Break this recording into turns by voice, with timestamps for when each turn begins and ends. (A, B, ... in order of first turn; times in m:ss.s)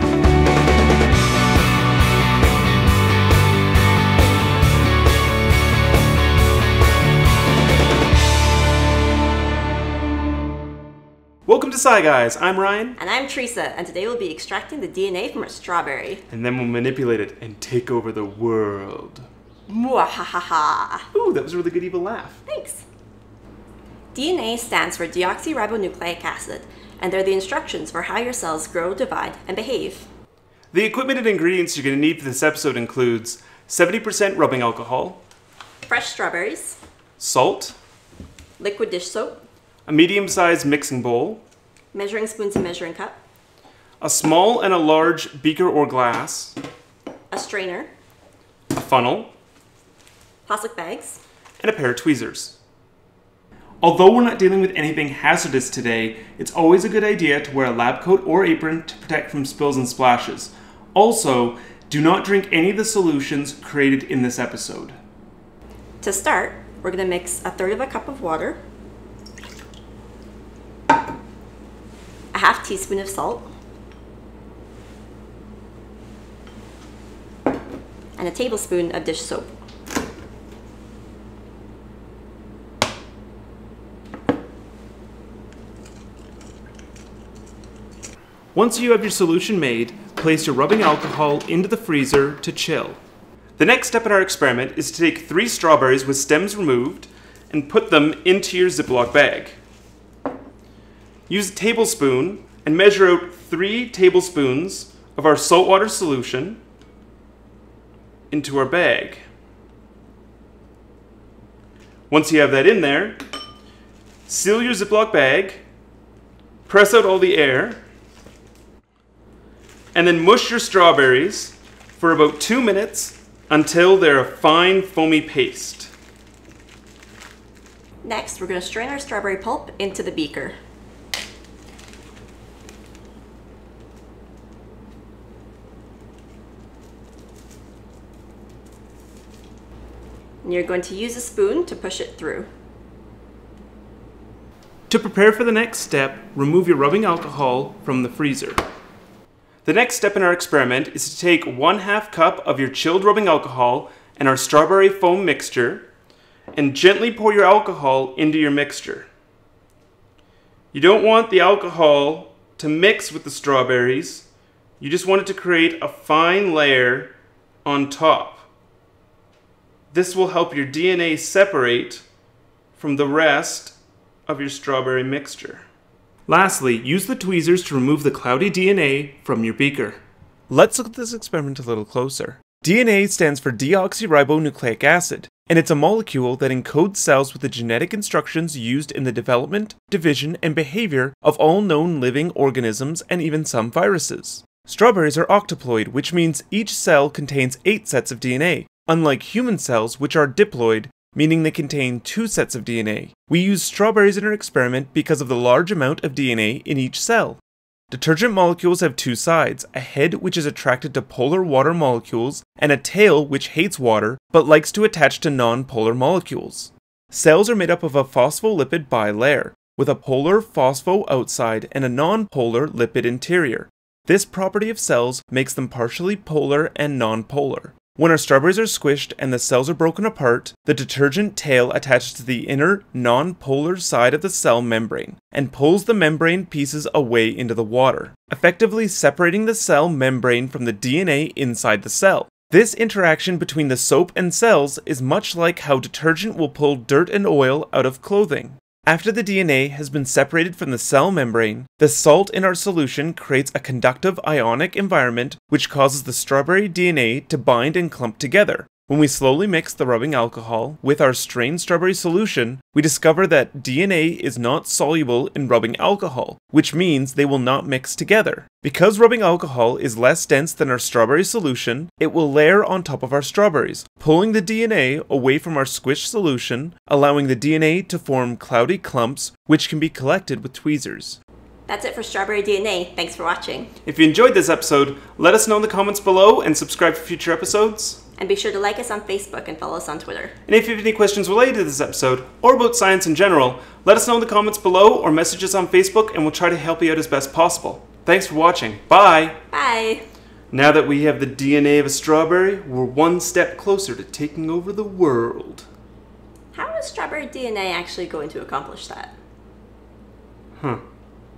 0:11.4-0:13.0 A
0:13.0-0:16.2 B
0:16.3-0:19.2 A
0:19.7-0:21.1 B
0:21.1-0:22.4 A
0:22.5-0:22.8 B
0:24.1-0:30.1 B
0:30.7-0:35.2 A
0:35.8-0:36.8 B
0:37.2-0:37.8 A
0:38.6-0:39.4 B
0:39.9-0:41.4 A
0:41.9-0:43.2 B
0:44.0-0:46.6 A
0:47.3-0:47.9 B
0:48.7-0:49.3 A
0:50.4-0:51.2 B
0:51.6-0:52.6 A
0:53.8-1:05.0 A
1:06.0-1:08.6 B
1:12.3-1:13.5 B
1:18.2-1:19.6 B
1:28.5-1:33.0 A
1:33.6-1:39.6 A
1:41.3-1:46.6 A
1:48.3-1:49.2 A
1:52.1-1:53.2 A
1:54.3-1:55.6 A
1:56.7-1:57.8 A
1:59.9-2:05.9 A
2:08.0-2:10.6 B
2:20.4-2:22.5 B
2:24.9-2:28.6 A
2:29.6-2:35.9 A
2:36.5-2:39.1 A
2:40.7-2:44.3 A
2:44.8-2:47.1 A
2:47.6-2:48.5 A
2:49.9-2:52.0 A
2:52.8-2:55.6 A
2:56.3-3:00.0 A
3:00.5-3:27.4 A
3:27.9-4:41.2 A
4:41.7-4:43.7 B
4:43.8-4:48.0 A
4:48.2-4:50.3 B
4:50.5-4:59.4 A
4:59.5-5:00.0 B
5:00.5-5:05.7 A
5:06.5-5:09.1 B